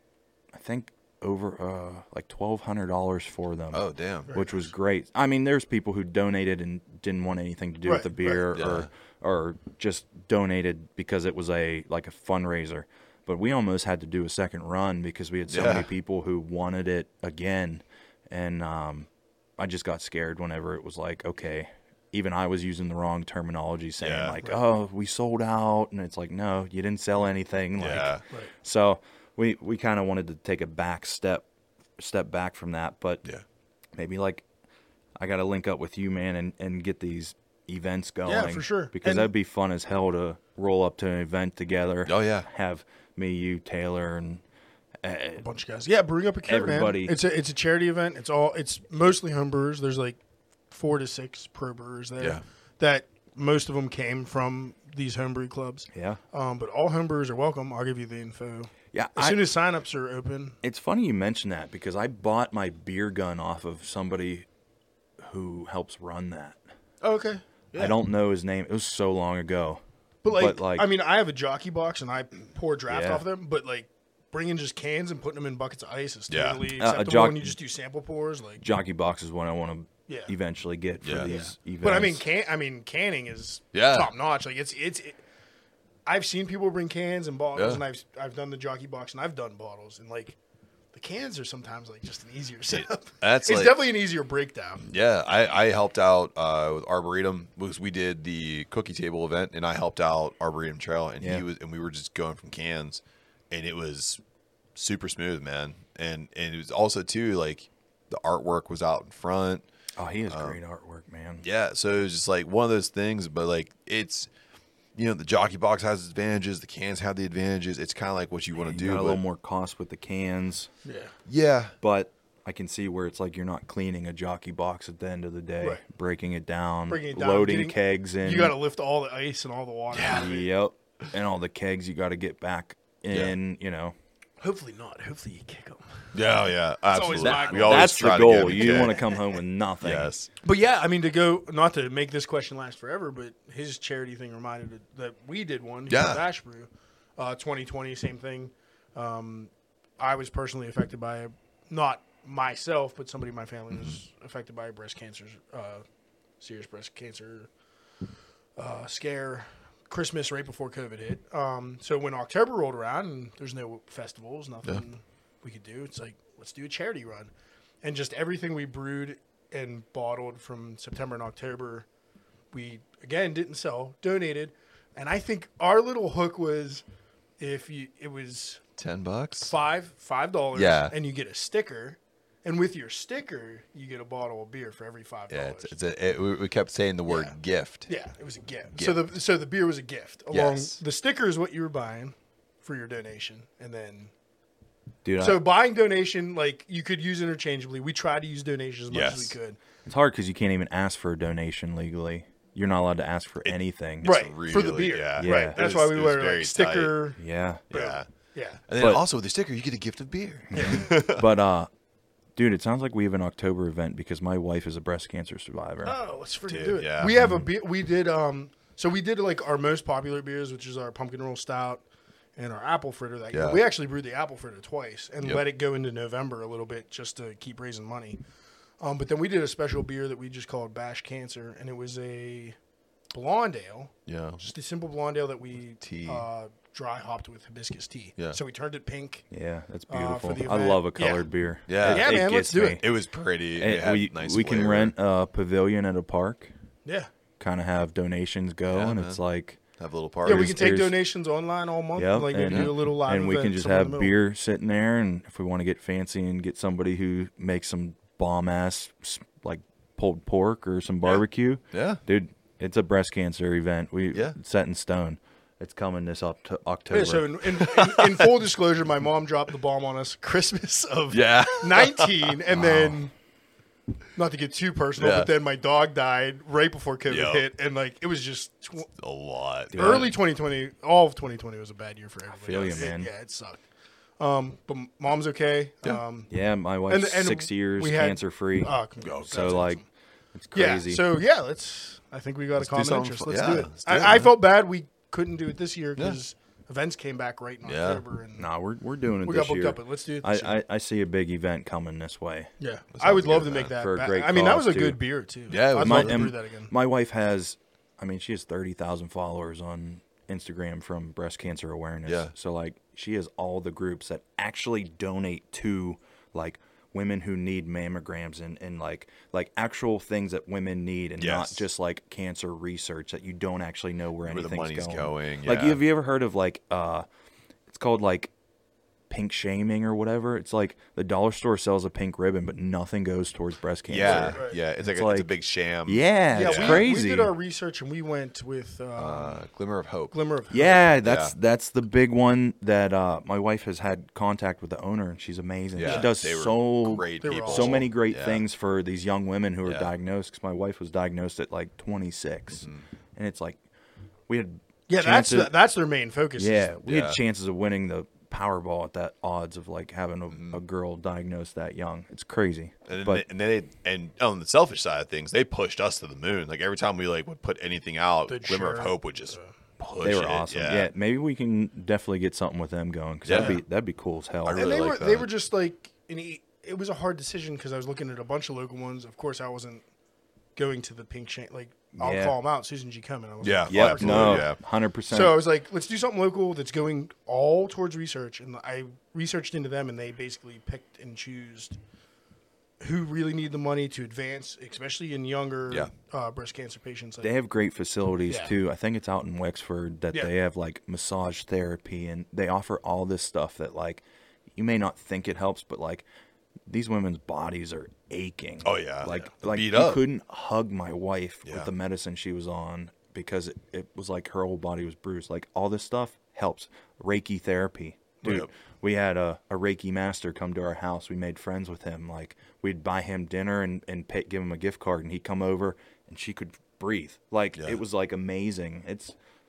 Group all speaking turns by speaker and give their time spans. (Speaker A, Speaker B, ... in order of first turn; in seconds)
Speaker A: 0.6-31.4, 32.0-33.2, 34.0-34.5, 35.2-44.4, 45.0-45.5, 46.5-47.1, 55.9-56.2, 58.9-59.4, 60.6-64.5, 65.2-66.6, 67.8-70.9, 72.9-73.2, 76.7-77.6, 78.6-82.2, 110.0-111.4, 118.6-120.7, 121.8-128.6, 130.1-133.9, 137.2-140.1, 195.1-195.4, 199.8-204.1, 205.2-205.6, 207.2-207.6, 208.8-209.0, 210.5-211.7, 212.4-215.9, 239.3-242.8, 243.6-246.5, 247.4-249.6, 250.2-251.0, 251.9-267.3, 272.6-272.9, 279.7-280.1, 282.4-283.1, 286.3-288.7, 289.3-289.8, 290.4-291.0, 298.4-302.5, 303.7-305.0, 305.8-327.1, 327.7-328.3, 329.1-335.3, 335.9-337.3, 340.5-353.6, 354.3-355.5, 356.4-363.2, 370.0-374.6, 382.0-382.4, 383.7-385.3, 397.2-404.0, 404.6-406.0, 406.7-429.1
Speaker B: 3.7-4.3, 8.5-8.9, 15.5-15.9, 24.0-24.4, 27.8-28.2, 42.1-42.5, 76.3-76.6, 81.0-81.3, 83.7-84.1, 87.5-87.8, 92.7-93.8, 94.9-104.2, 104.8-109.6, 110.3-110.6, 111.4-114.3, 115.0-119.2, 121.3-121.7, 129.9-130.3, 136.1-139.0, 139.8-140.3, 145.9-146.2, 178.8-179.5, 180.5-180.9, 185.3-187.9, 188.8-189.1, 190.3-190.8, 198.9-199.3, 203.4-206.9, 207.7-208.1, 208.7-211.2, 216.5-217.2, 223.3-223.6, 234.1-234.4, 235.8-236.3, 241.7-242.2, 242.8-244.9, 248.7-249.2, 249.8-250.6, 261.7-262.0, 267.6-268.3, 271.1-272.7, 275.0-275.3, 277.1-277.4, 279.0-280.1, 289.0-289.7, 292.6-294.3, 297.6-298.0, 302.9-303.8, 305.5-306.4, 312.1-312.3, 321.2-321.7, 324.2-325.8, 333.9-336.9, 339.0-340.1, 341.0-341.3, 345.7-348.4, 349.6-349.9, 356.9-357.2, 360.3-360.6, 362.9-370.9, 373.3-373.6, 374.4-375.3, 383.4-384.6, 408.6-410.0, 418.2-418.5
Speaker C: 4.3-4.6, 7.9-8.4, 38.3-39.3, 45.4-50.2, 50.7-60.6, 67.0-68.0, 70.2-78.6, 81.2-85.2, 86.1-90.4, 90.9-94.9, 120.8-121.1, 126.9-130.5, 134.4-136.2, 136.9-139.0, 140.4-155.8, 156.4-157.5, 158.6-167.3, 167.8-171.9, 172.5-176.8, 177.4-178.6, 179.4-185.7, 187.1-187.4, 187.9-194.1, 195.2-199.6, 204.0-207.2, 207.7-208.6, 210.5-210.9, 215.8-221.8, 222.4-228.2, 228.8-232.6, 233.1-239.2, 239.9-241.3, 241.8-242.8, 246.8-247.1, 250.2-254.2, 266.9-273.1, 274.1-278.9, 279.8-283.6, 284.2-286.3, 286.9-289.9, 290.5-298.5, 299.2-300.5, 302.6-306.7, 334.0-334.6, 336.3-339.4, 340.1-340.8, 347.0-347.9, 354.9-356.7, 368.3-369.5, 374.5-379.8, 380.6-384.6, 385.1-391.8, 392.8-397.3, 398.3-398.5